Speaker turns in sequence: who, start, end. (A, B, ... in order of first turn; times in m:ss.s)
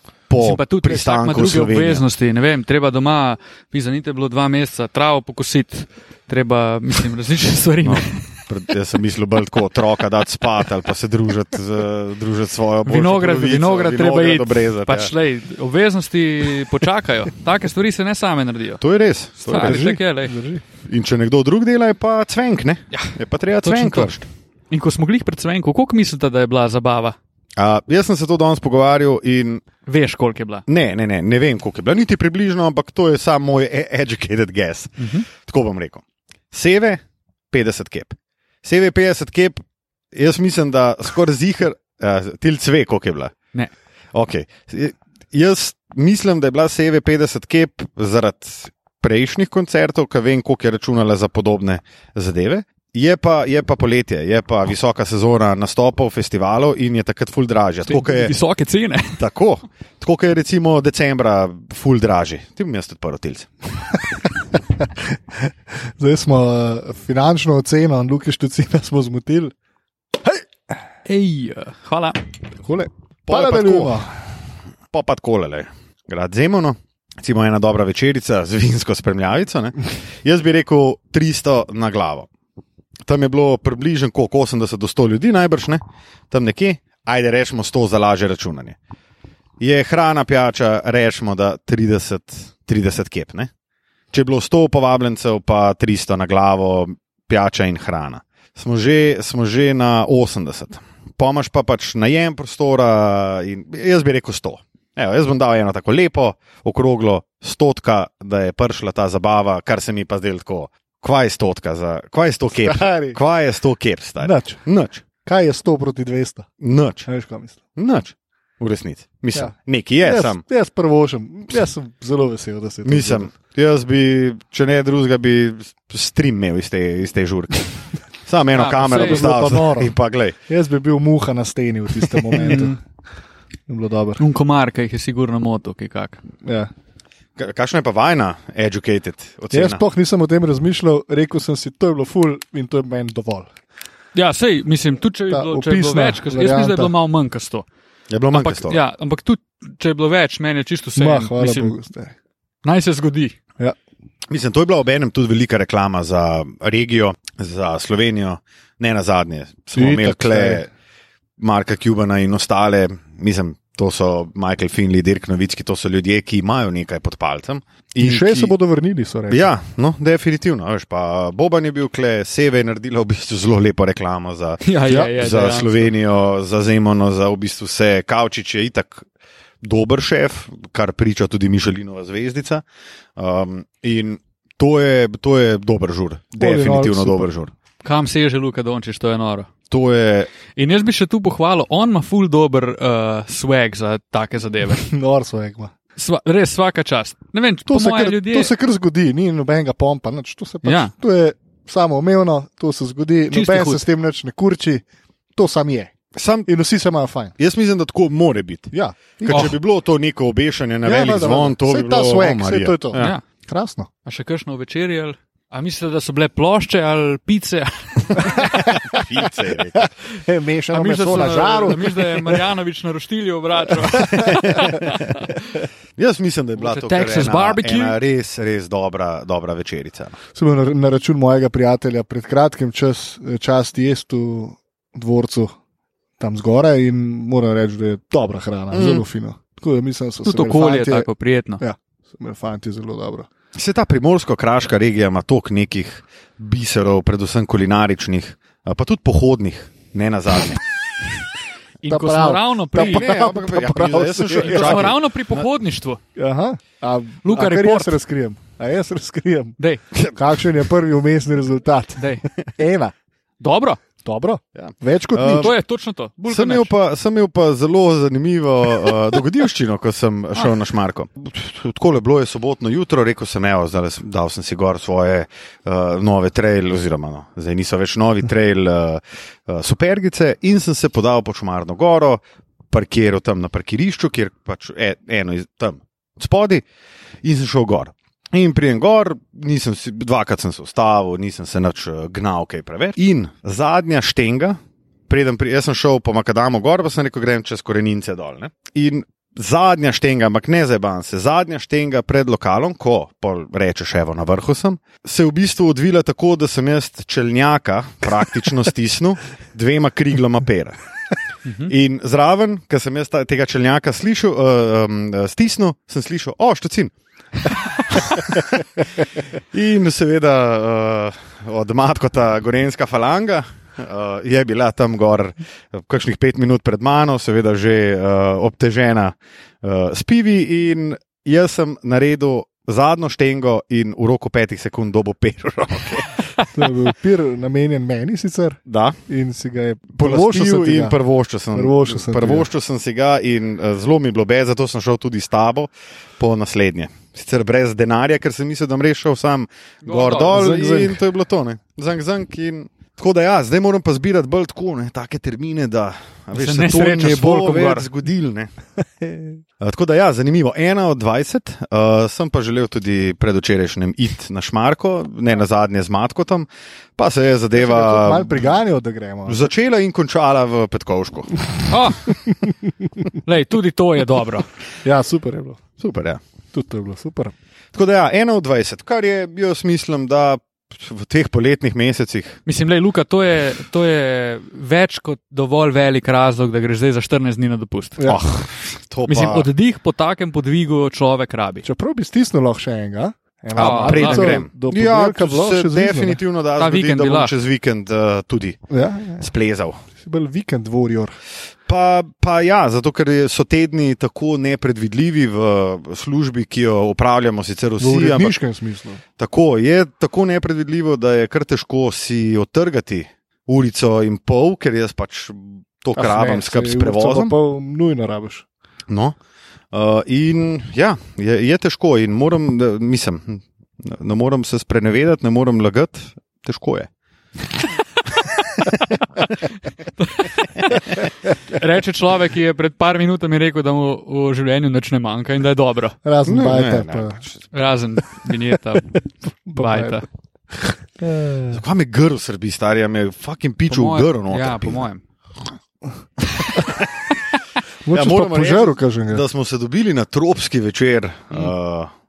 0:00.3-0:02.1 A
0:00.4-0:08.2 B
0:07.8-0:15.1 A
0:12.9-0:18.8 B
0:18.8-0:19.9 A
0:19.4-0:20.4 B
0:19.5-0:20.6 C
0:20.9-0:24.2 A
0:22.9-0:24.2 B
0:24.7-0:27.2 B
0:27.6-0:29.6 A
0:29.9-0:30.6 B
0:30.7-0:39.6 A
0:35.0-0:35.3 B
0:40.1-0:43.4 A
0:44.1-0:58.3 A
0:57.9-0:59.2 B
0:59.2-1:03.5 A
1:04.8-1:09.5 C
1:11.1-1:12.2 B
1:12.6-1:14.1 C
1:13.3-1:14.0 A
1:14.9-1:22.3 A
1:23.1-1:28.8 A
1:29.6-1:33.5 A
1:34.1-1:55.0 A
1:52.6-1:53.2 C
1:54.2-1:54.6 C
1:55.2-1:56.5 C
1:56.6-1:57.1 A
1:57.1-1:57.6 C
1:57.8-2:00.4 A
1:59.3-2:03.3 C
2:02.8-2:10.4 A
2:08.5-2:09.3 B
2:08.8-2:10.0 C
2:10.5-2:12.8 C
2:12.3-2:12.8 B
2:13.7-2:14.2 C
2:14.2-2:16.2 B
2:16.4-2:16.7 C
2:17.4-2:19.8 A
2:19.5-2:23.5 C
2:24.1-2:27.7 B
2:25.3-2:26.9 C
2:28.1-2:28.8 A
2:28.3-2:31.8 B
2:31.0-2:32.2 C
2:32.6-2:33.4 B
2:34.3-2:40.7 A
2:39.8-2:40.6 C
2:41.4-2:48.5 A
2:48.0-2:49.5 C
2:49.3-2:59.1 A
2:54.6-2:55.9 B
2:54.9-2:55.1 C
2:59.6-3:02.6 A
3:03.2-3:07.5 A
3:06.4-3:07.3 C
3:07.8-3:09.5 B
3:09.7-3:10.3 A
3:10.6-3:14.9 B
3:14.7-3:15.7 C
3:16.0-3:18.5 B
3:17.7-3:24.8 C
3:20.6-3:20.9 B
3:23.3-3:23.8 B
3:25.4-3:25.9 C
3:26.2-3:26.5 A
3:26.5-3:27.4 C
3:27.4-3:33.2 A
3:28.7-3:29.5 C
3:29.3-3:29.5 B
3:30.8-3:33.9 C
3:33.0-3:33.2 B
3:34.1-3:38.5 B
3:38.2-3:39.0 C
3:38.4-3:39.9 A
3:39.8-3:42.5 C
3:40.7-3:45.3 B
3:43.7-3:44.6 C
3:44.1-3:45.1 A
3:46.0-3:50.2 A
3:46.6-3:48.0 B
3:50.3-3:55.6 C
3:56.2-4:03.3 C
3:58.7-3:59.0 A
4:00.2-4:01.6 B
4:03.6-4:10.6 A
4:11.8-4:13.1 B
4:11.9-4:15.0 C
4:12.8-4:15.4 A
4:14.3-4:16.0 B
4:16.2-4:19.6 C
4:17.2-4:18.0 B
4:20.1-4:22.9 C
4:22.0-4:22.2 B
4:23.4-4:23.8 B
4:24.0-4:25.5 C
4:24.6-4:25.5 A
4:25.2-4:26.7 B
4:26.3-4:46.6 A
4:47.2-4:54.6 A
4:55.1-5:10.8 A
5:11.5-5:11.7 B
5:11.6-5:16.9 A
5:17.9-5:36.3 A
5:36.5-5:41.0 C
5:38.7-5:39.0 A
5:40.0-5:58.5 A
5:41.5-5:42.5 C
5:49.8-5:50.4 B
5:50.3-5:51.0 C
5:56.4-5:57.9 B
5:59.0-5:59.4 C
5:59.6-6:08.5 A
6:07.6-6:09.5 C
6:09.3-6:11.4 A
6:11.7-6:12.2 B
6:13.2-6:14.5 B
6:14.8-6:15.6 C
6:15.8-6:16.2 A
6:16.5-6:17.3 C
6:17.7-6:22.4 A
6:22.5-6:28.1 B
6:28.0-6:28.2 C
6:28.0-6:29.5 A
6:29.1-6:31.7 B
6:31.6-6:36.2 C
6:33.6-6:38.6 A
6:33.6-6:34.4 B
6:36.6-6:37.3 B
6:38.7-6:39.3 C
6:39.2-6:39.8 A
6:40.0-6:41.2 C
6:41.7-6:48.4 A
6:47.8-6:49.0 C
6:49.2-6:57.3 A
6:56.0-6:58.5 C
6:58.9-6:59.2 A
6:59.7-7:06.9 A
7:10.0-7:16.0 B
7:16.0-7:17.2 C
7:16.3-7:17.5 A
7:17.5-7:19.0 B
7:19.5-7:21.6 C
7:19.5-7:20.0 B
7:21.5-7:24.8 A
7:23.7-7:25.0 B
7:26.4-7:26.8 A
7:27.8-7:29.2 C
7:27.9-7:31.9 A